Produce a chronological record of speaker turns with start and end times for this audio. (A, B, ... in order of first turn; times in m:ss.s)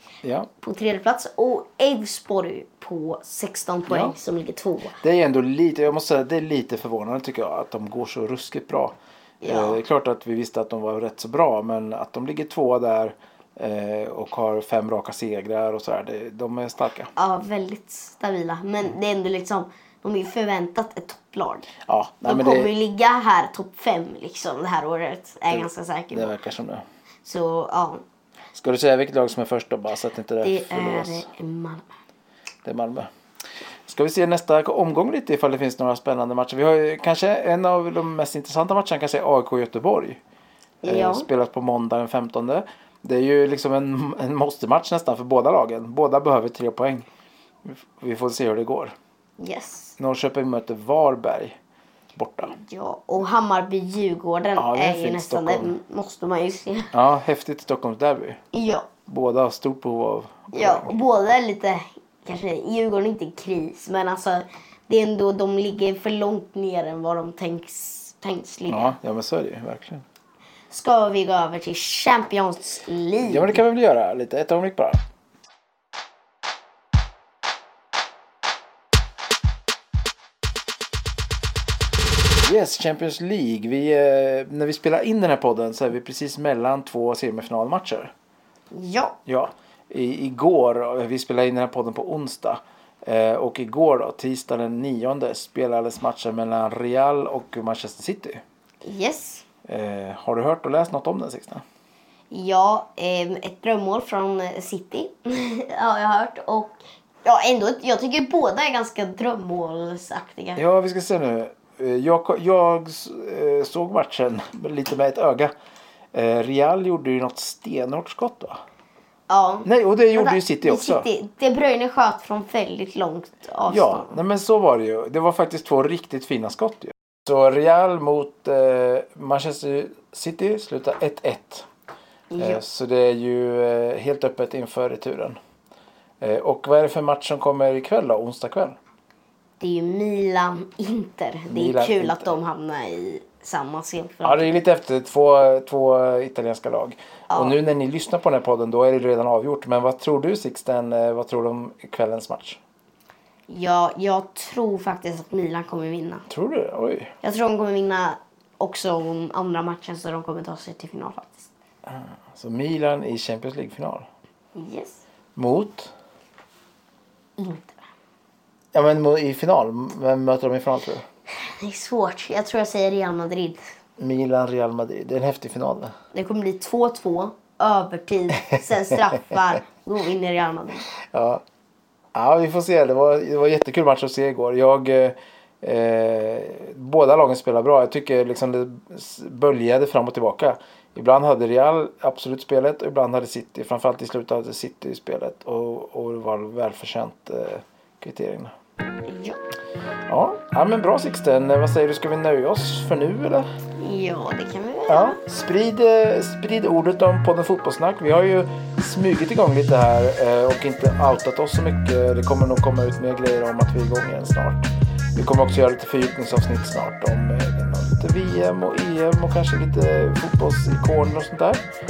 0:00.2-0:00.5 A
0:00.6-0:05.0 B
0:03.9-0:04.2 A
0:05.0-0:17.1 A
0:09.4-0:09.8 B
0:17.2-0:21.7 B
0:21.8-0:22.7 A
0:22.2-0:26.4 B
0:25.5-0:26.8 A
0:27.2-0:28.0 B
0:28.5-0:31.3 A
0:30.4-0:31.9 B
0:32.6-0:33.1 A
0:33.9-0:40.2 A
0:40.8-0:41.3 B
0:40.8-0:47.1 A
0:47.6-0:49.0 A
0:49.4-0:50.0 B
0:50.0-0:51.6 A
0:52.2-0:52.6 A
0:52.5-0:56.9 B
0:54.6-0:55.7 A
0:56.9-0:58.4 A
0:58.5-0:58.9 B
0:59.1-1:01.0 A
1:00.5-1:09.0 B
1:08.7-1:10.0 A
1:10.7-1:13.6 B
1:13.2-1:15.0 A
1:22.3-1:28.1 A
1:28.7-1:29.2 B
1:29.3-1:38.4 A
1:38.8-1:39.5 B
1:39.7-1:41.6 A
1:42.3-1:50.6 B
1:50.6-1:55.5 A
1:56.1-1:58.6 A
1:59.3-2:04.2 B
1:59.6-2:01.1 A
2:03.7-2:11.7 A
2:12.3-2:12.6 B
2:12.4-2:15.4 A
2:16.2-2:18.8 A
2:19.6-2:24.5 B
2:21.5-2:22.3 A
2:24.2-2:32.6 A
2:27.3-2:27.6 B
2:33.5-2:36.3 B
2:36.3-2:37.1 A
2:37.2-2:41.5 B
2:41.9-2:44.1 A
2:44.6-2:45.0 B
2:45.4-2:45.9 A
2:47.4-2:47.8 B
2:48.7-2:51.0 A
2:51.4-2:53.6 B
2:54.0-2:56.0 A
2:56.1-3:00.8 B
3:01.1-3:01.4 A
3:02.2-3:18.5 A
3:19.0-3:19.4 B
3:20.1-3:23.5 A
3:23.8-3:25.2 B
3:24.9-3:41.6 A